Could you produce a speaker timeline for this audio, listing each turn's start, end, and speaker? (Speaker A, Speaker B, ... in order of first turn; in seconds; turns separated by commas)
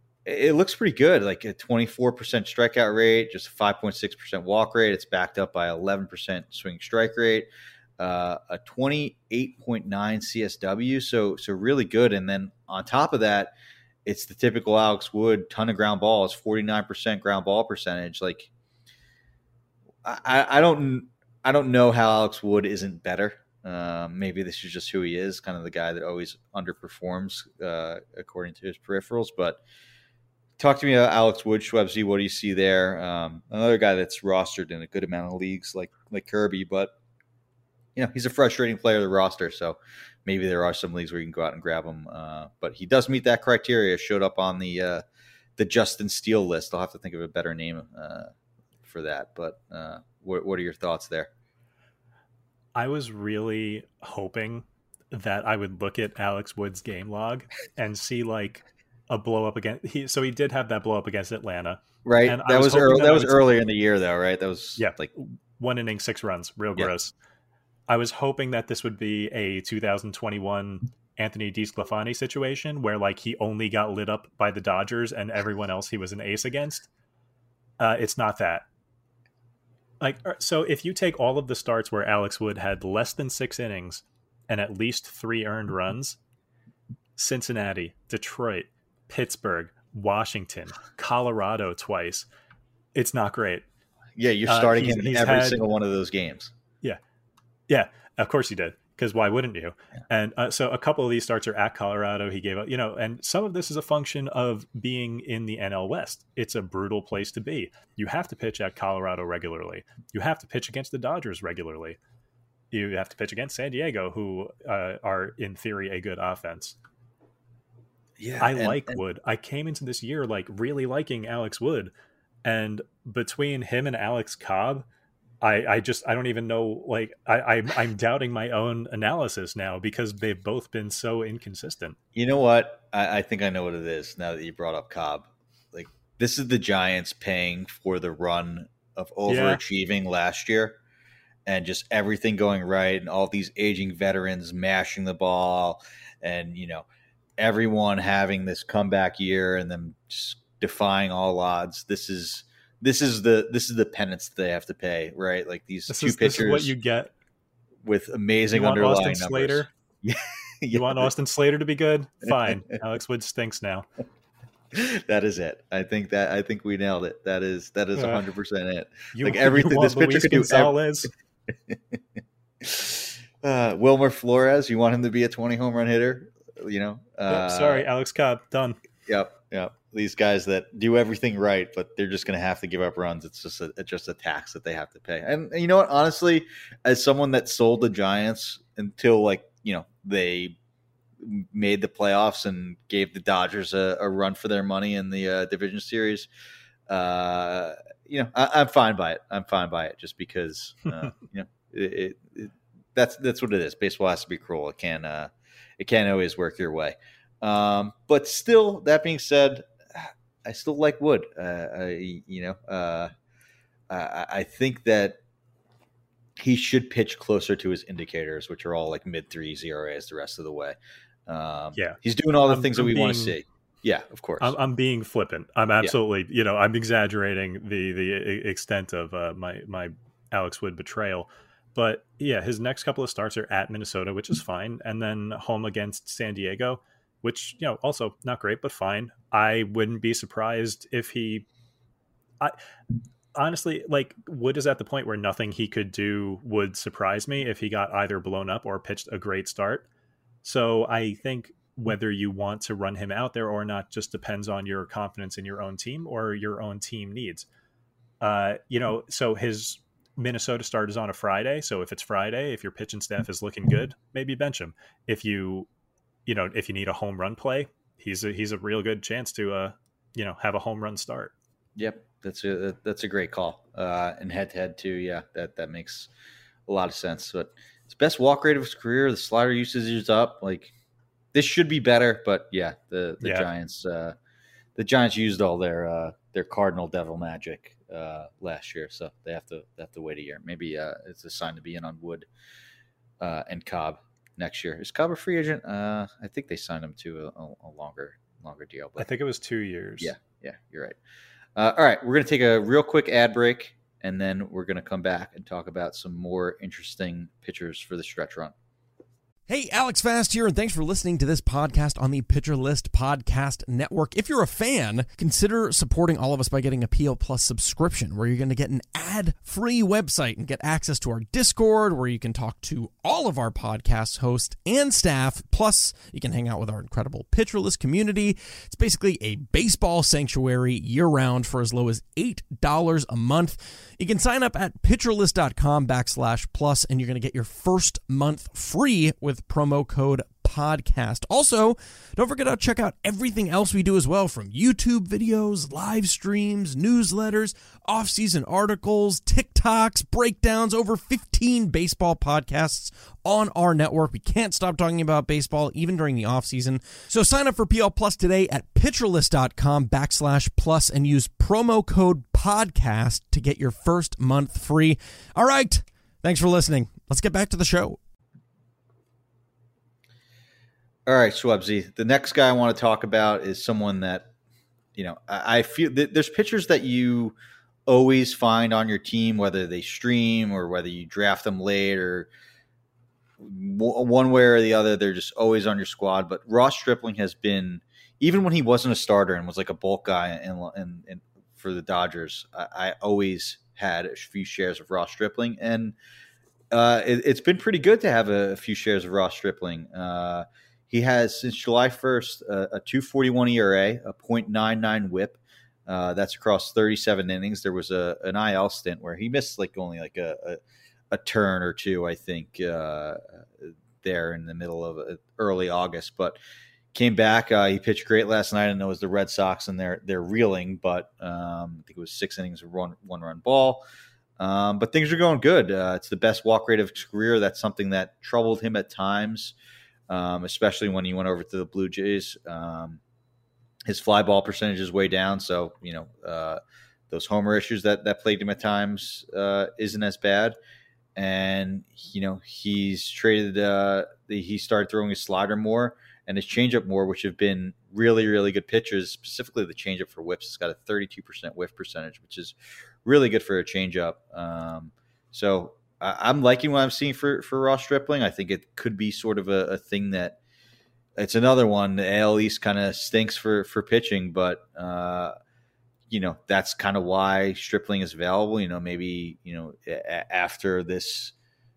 Speaker A: 0.2-13.5, Speaker A: 14.1-18.5, Speaker A: 20.0-29.6, Speaker A: 30.6-36.9, Speaker A: 37.9-45.0, Speaker A: 45.6-48.3, Speaker A: 48.8-51.3, Speaker B: 52.8-63.5, Speaker A: 62.0-65.1, Speaker B: 64.8-67.1, Speaker B: 67.9-76.9, Speaker B: 77.8-78.7, Speaker B: 80.0-86.2, Speaker B: 87.2-92.3, Speaker B: 92.9-93.7, Speaker A: 94.1-96.5, Speaker B: 94.5-95.6, Speaker B: 97.7-112.0, Speaker B: 112.7-116.8, Speaker A: 118.2-119.0, Speaker B: 118.4-121.9, Speaker B: 122.4-124.9, Speaker B: 125.4-132.0, Speaker A: 132.1-140.8, Speaker B: 139.3-139.6, Speaker A: 141.4-146.9, Speaker A: 147.4-156.7, Speaker B: 155.9-157.1, Speaker A: 157.8-161.1, Speaker B: 158.5-159.7, Speaker B: 160.7-163.9, Speaker A: 164.7-170.8, Speaker B: 167.9-168.2, Speaker B: 169.1-171.1, Speaker A: 171.7-172.0, Speaker A: 172.6-177.8, Speaker B: 177.3-178.8, Speaker A: 179.1-190.6, Speaker A: 191.2-196.3, Speaker A: 196.9-213.1, Speaker A: 213.9-215.2, Speaker A: 216.4-224.6, Speaker B: 221.8-223.4, Speaker B: 224.4-241.5, Speaker B: 243.3-249.8, Speaker B: 250.4-257.5, Speaker B: 258.2-265.7, Speaker B: 266.3-271.3, Speaker A: 271.8-276.1, Speaker A: 276.7-280.7, Speaker A: 281.3-284.1, Speaker B: 283.2-283.5, Speaker A: 284.8-292.3, Speaker A: 293.2-299.1, Speaker B: 299.0-300.1, Speaker A: 300.0-301.0, Speaker A: 301.6-308.5, Speaker C: 309.5-368.0, Speaker A: 371.1-374.3, Speaker A: 375.0-377.4, Speaker A: 377.9-382.3, Speaker A: 383.4-395.9, Speaker A: 396.7-410.6, Speaker A: 411.1-416.4, Speaker A: 416.9-423.8, Speaker A: 424.4-429.6, Speaker A: 430.1-433.0, Speaker A: 433.9-440.6, Speaker A: 441.1-460.4, Speaker A: 461.2-465.4, Speaker A: 466.1-471.3